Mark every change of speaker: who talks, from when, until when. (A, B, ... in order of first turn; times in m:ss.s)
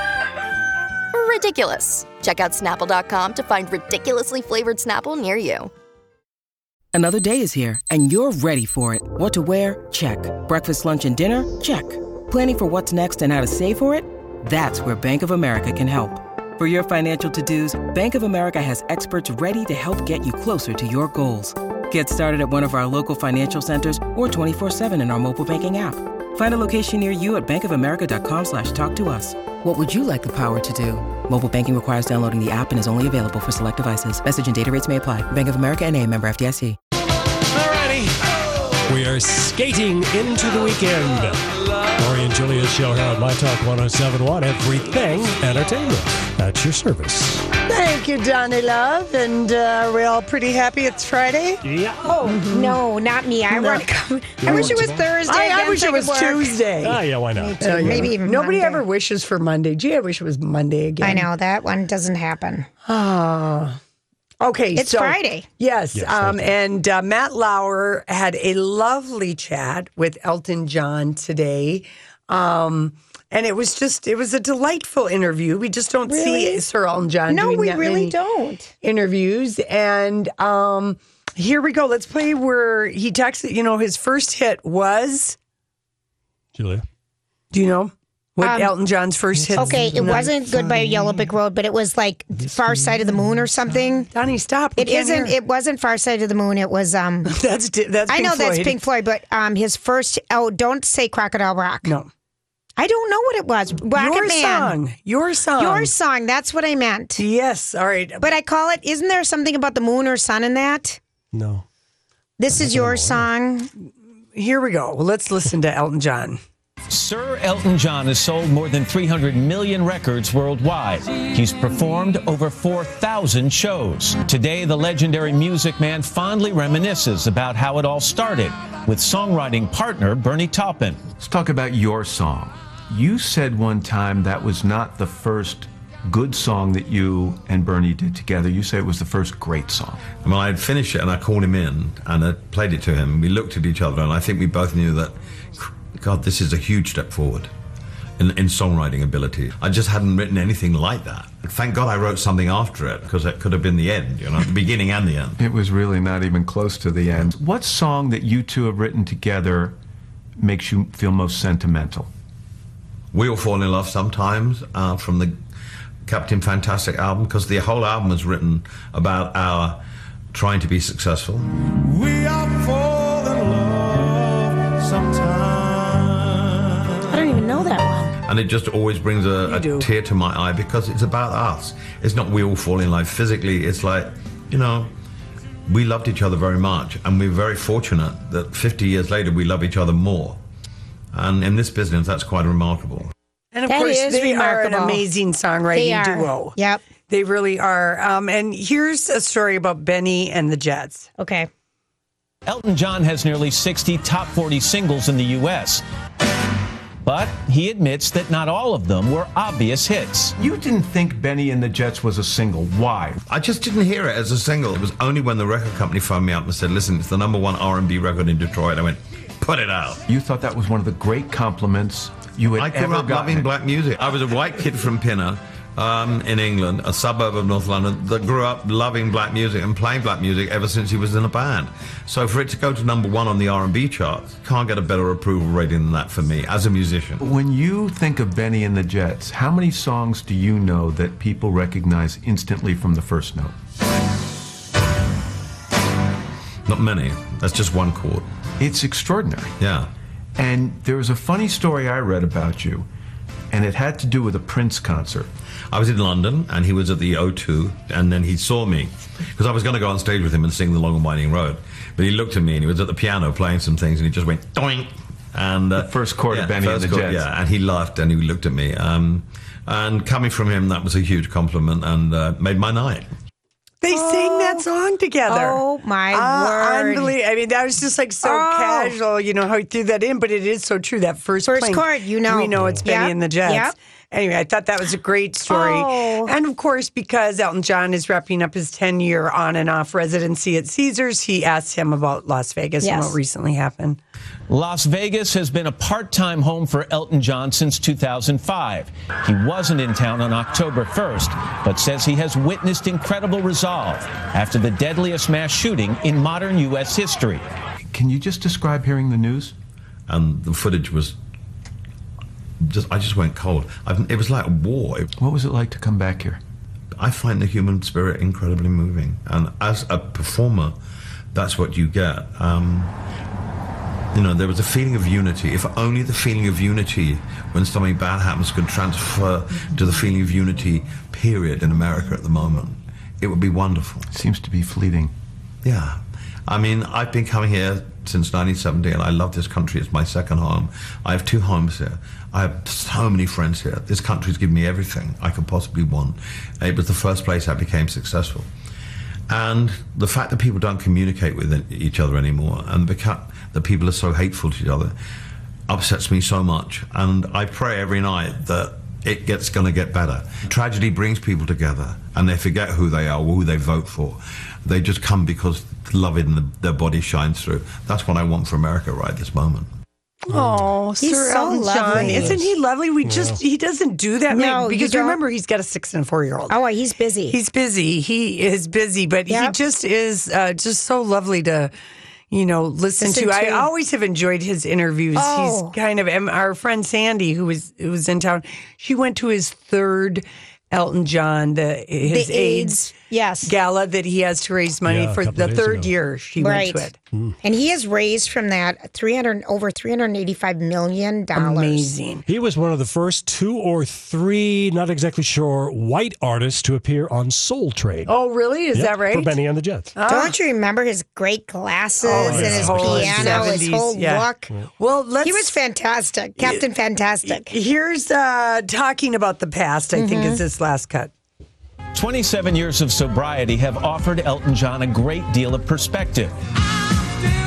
0:01.1-0:05.7 A
0:06.9-0:36.8 B
0:37.5-0:38.2 C
0:38.9-0:47.5 C
0:47.7-0:51.6 D
0:51.6-0:52.1 C
0:52.0-0:56.6 E
0:52.2-0:52.8 D
0:53.5-0:53.8 D
0:54.4-0:55.2 C
0:54.4-0:57.0 D
0:56.8-0:58.1 C
0:57.4-0:58.8 E
0:57.6-1:01.3 D
1:01.0-1:02.7 E
1:02.8-1:03.8 D
1:04.4-1:18.1 D
1:04.8-1:05.5 E
1:05.9-1:06.5 C
1:16.1-1:16.6 E
1:17.3-1:18.7 E
1:18.8-1:25.4 D
1:26.5-1:26.8 C
1:27.5-1:31.2 D
1:28.4-1:28.7 E
1:29.3-1:30.3 C
1:29.6-1:34.1 E
1:32.4-1:33.3 C
1:34.1-1:35.3 D
1:34.8-1:37.3 E
1:37.3-1:38.8 D
1:38.1-1:41.9 E
1:42.8-1:44.8 E
1:43.9-1:45.9 D
1:45.6-1:47.2 E
1:47.2-1:48.2 D
1:48.2-1:51.0 E
1:51.3-1:51.6 C
1:52.4-1:53.7 E
1:52.5-1:53.3 C
1:54.3-1:56.4 D
1:56.9-2:11.1 F
2:11.2-2:20.1 G
2:20.2-2:27.5 H
2:28.2-2:35.4 H
2:35.4-2:39.8 G
2:40.4-2:42.1 G
2:43.1-2:45.4 H
2:46.1-2:49.8 H
2:50.3-2:51.5 H
2:54.9-2:56.6 H
2:57.1-2:58.1 E
2:58.2-3:04.9 H
2:59.4-2:59.9 D
3:05.7-3:10.4 H
3:11.1-3:13.1 H
3:13.5-3:16.5 D
3:13.7-3:15.0 E
3:15.7-3:16.8 E
3:17.1-3:21.1 D
3:21.2-3:21.5 E
3:22.4-3:25.8 F
3:27.0-3:30.3 F
3:30.4-3:33.2 G
3:33.3-3:40.0 H
3:40.1-3:43.5 G
3:42.6-3:57.2 H
3:57.2-4:03.6 G
4:06.7-4:08.3 H
4:08.6-4:09.5 G
4:09.6-4:09.9 H
4:10.4-4:12.9 G
4:13.5-4:15.3 G
4:15.7-4:33.1 H
4:25.8-4:27.3 G
4:33.8-4:54.0 D
4:33.9-4:34.6 E
4:35.3-4:37.1 E
4:38.2-4:39.0 E
4:41.4-4:43.8 E
4:42.5-4:42.8 C
4:45.5-4:46.3 E
4:52.8-4:53.2 E
4:54.5-5:07.4 F
5:07.9-5:09.5 G
5:10.1-5:11.2 H
5:12.6-5:15.1 H
5:15.2-5:16.4 G
5:17.0-5:20.8 H
5:21.3-5:22.9 H
5:24.1-5:34.1 H
5:34.1-5:35.1 G
5:35.6-5:48.5 H
5:49.3-5:54.9 H
5:55.7-6:09.7 H
6:10.3-6:16.6 D
6:10.3-6:10.7 C
6:11.0-6:12.4 E
6:11.9-6:12.5 C
6:13.0-6:13.4 C
6:14.3-6:15.2 E
6:16.5-6:17.4 E
6:17.3-6:21.7 D
6:19.3-6:19.6 E
6:22.3-6:32.9 D
6:23.0-6:23.7 E
6:25.2-6:25.8 E
6:32.0-6:33.6 E
6:33.4-6:37.0 D
6:34.8-6:36.0 C
6:36.4-6:36.9 E
6:37.4-6:41.9 E
6:41.4-6:42.2 D
6:42.3-6:48.1 C
6:48.1-6:49.4 D
6:48.7-6:49.9 C
6:50.0-6:50.4 D
6:50.1-6:54.5 E
6:52.0-6:55.6 D
6:52.1-6:53.7 C
6:55.2-6:57.5 E
6:56.4-6:56.6 D
6:57.2-7:01.1 D
7:00.0-7:00.4 E
7:01.9-7:06.3 F